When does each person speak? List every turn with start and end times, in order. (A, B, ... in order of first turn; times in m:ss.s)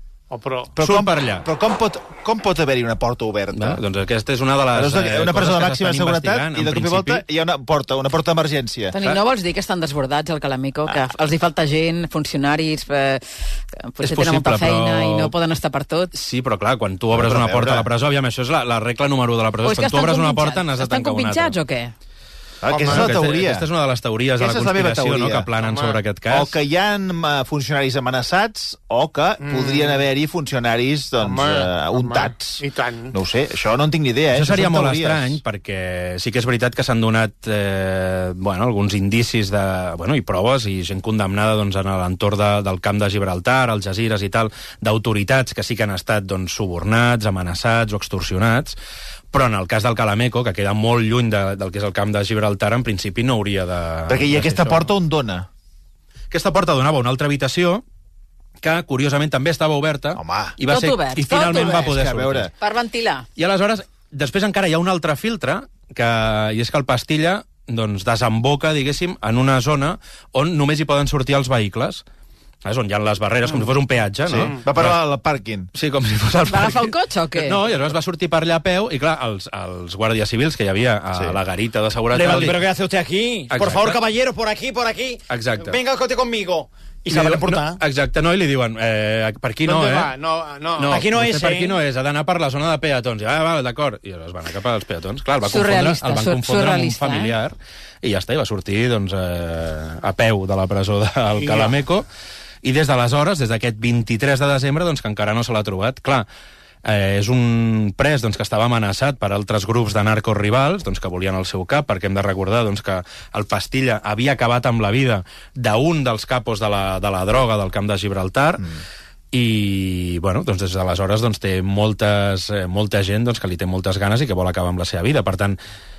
0:00.3-0:00.7 A
0:00.8-0:03.8 B
0:00.8-0:01.4 C
0:03.5-0:07.2 C
0:04.7-0:09.0 B
0:08.9-0:16.1 D
0:14.0-0:15.3 C
0:16.1-0:21.6 C
0:17.1-0:17.9 B
0:19.6-0:21.9 D
0:22.6-0:23.7 B
0:22.7-0:23.4 A
0:22.8-0:26.6 C
0:24.4-0:25.5 B
0:25.6-0:26.0 A
0:26.3-0:35.4 B
0:29.4-0:30.0 A
0:31.2-0:33.2 A
0:34.3-0:48.8 C
0:49.3-0:54.9 C
0:54.1-0:55.5 B
0:56.3-0:57.8 C
0:58.6-1:02.5 C
1:00.1-1:00.6 B
1:00.7-1:01.9 D
1:01.5-1:02.5 B
1:02.6-1:03.3 D
1:03.4-1:12.0 C
1:12.6-1:15.0 C
1:14.3-1:15.7 B
1:15.7-1:22.6 C
1:16.5-1:17.6 D
1:21.1-1:21.4 B
1:22.1-1:27.8 E
1:23.5-1:24.0 C
1:25.3-1:25.8 C
1:27.1-1:30.1 C
1:29.6-1:31.0 A
1:30.8-1:42.1 C
1:30.9-1:31.8 E
1:35.4-1:37.4 D
1:41.4-1:41.8 A
1:42.6-1:46.3 C
1:46.8-1:58.7 C
1:59.3-2:05.6 C